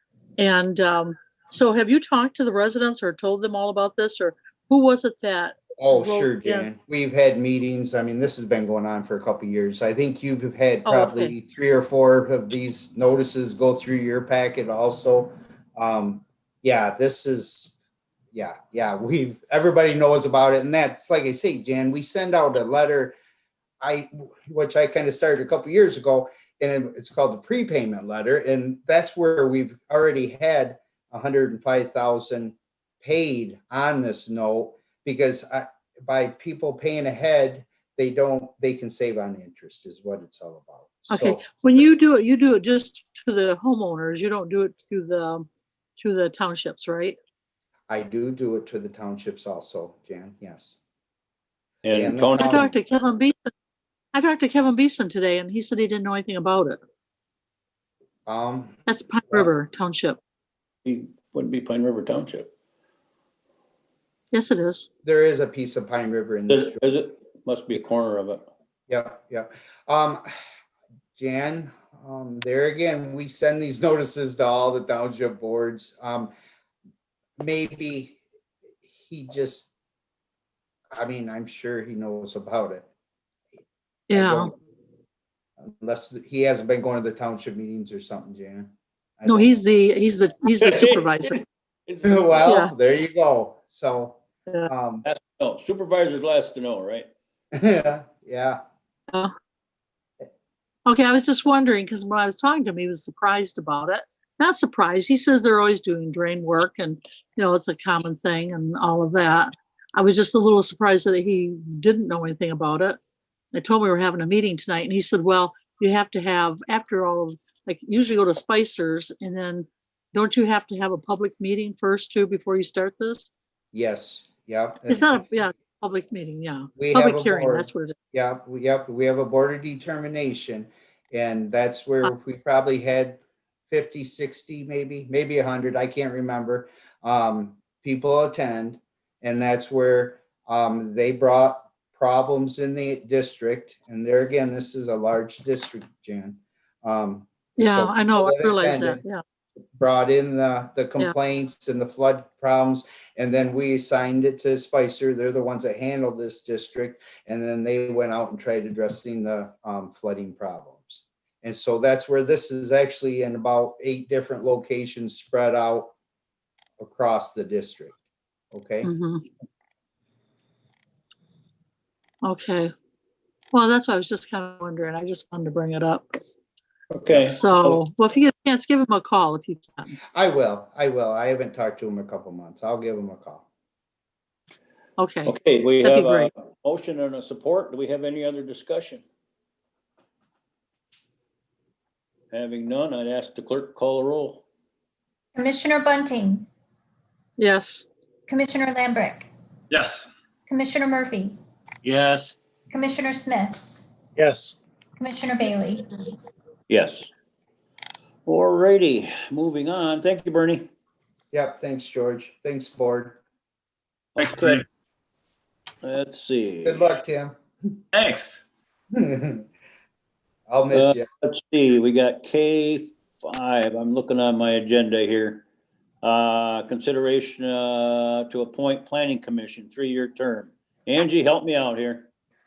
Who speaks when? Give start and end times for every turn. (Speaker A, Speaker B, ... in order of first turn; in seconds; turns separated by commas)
Speaker A: 0.4-6.7, Speaker B: 5.8-17.7, Speaker A: 10.8-11.3, Speaker B: 18.3-23.1, Speaker B: 23.8-41.5, Speaker A: 41.1-47.2, Speaker B: 47.9-50.7, Speaker C: 51.8-52.7, Speaker B: 52.0-52.7, Speaker A: 52.4-53.5, Speaker A: 54.1-56.8, Speaker B: 58.3-58.8, Speaker A: 58.9-60.2, Speaker C: 60.9-62.5, Speaker A: 64.3-64.9, Speaker B: 65.0-66.9, Speaker C: 66.5-68.5, Speaker B: 68.9-70.3, Speaker B: 71.2-76.3, Speaker B: 77.4-78.2, Speaker B: 78.9-79.7, Speaker B: 80.9-82.9, Speaker A: 84.1-84.5, Speaker B: 84.1-84.5, Speaker B: 85.6-89.5, Speaker A: 89.3-91.4, Speaker C: 90.6-91.2, Speaker C: 91.9-92.5, Speaker B: 92.0-95.1, Speaker A: 92.5-92.7, Speaker C: 95.0-97.1, Speaker B: 97.5-98.6, Speaker A: 100.9-113.0, Speaker A: 113.5-123.3, Speaker B: 123.7-125.2, Speaker A: 124.9-128.0, Speaker B: 126.8-149.0, Speaker A: 147.6-149.2, Speaker B: 149.8-165.9, Speaker B: 166.8-168.0, Speaker B: 168.5-168.9, Speaker A: 168.8-169.2, Speaker A: 172.2-172.7, Speaker A: 173.5-176.3, Speaker C: 176.9-177.8, Speaker A: 177.3-180.0, Speaker B: 180.2-183.4, Speaker A: 185.0-186.3, Speaker C: 185.3-189.0, Speaker C: 192.3-194.4, Speaker D: 195.3-196.5, Speaker A: 197.4-197.9, Speaker D: 198.3-199.3, Speaker E: 199.7-200.1, Speaker D: 200.5-201.4, Speaker E: 201.8-202.3, Speaker D: 202.7-203.8, Speaker E: 204.2-204.6, Speaker D: 205.0-206.0, Speaker C: 206.7-207.1, Speaker C: 208.3-210.7, Speaker B: 211.3-213.2, Speaker C: 214.2-214.6, Speaker E: 214.2-214.6, Speaker C: 215.8-216.9, Speaker B: 216.7-217.3, Speaker E: 217.9-218.4, Speaker B: 218.9-219.4, Speaker B: 220.5-221.1, Speaker C: 220.7-225.4, Speaker C: 226.0-232.1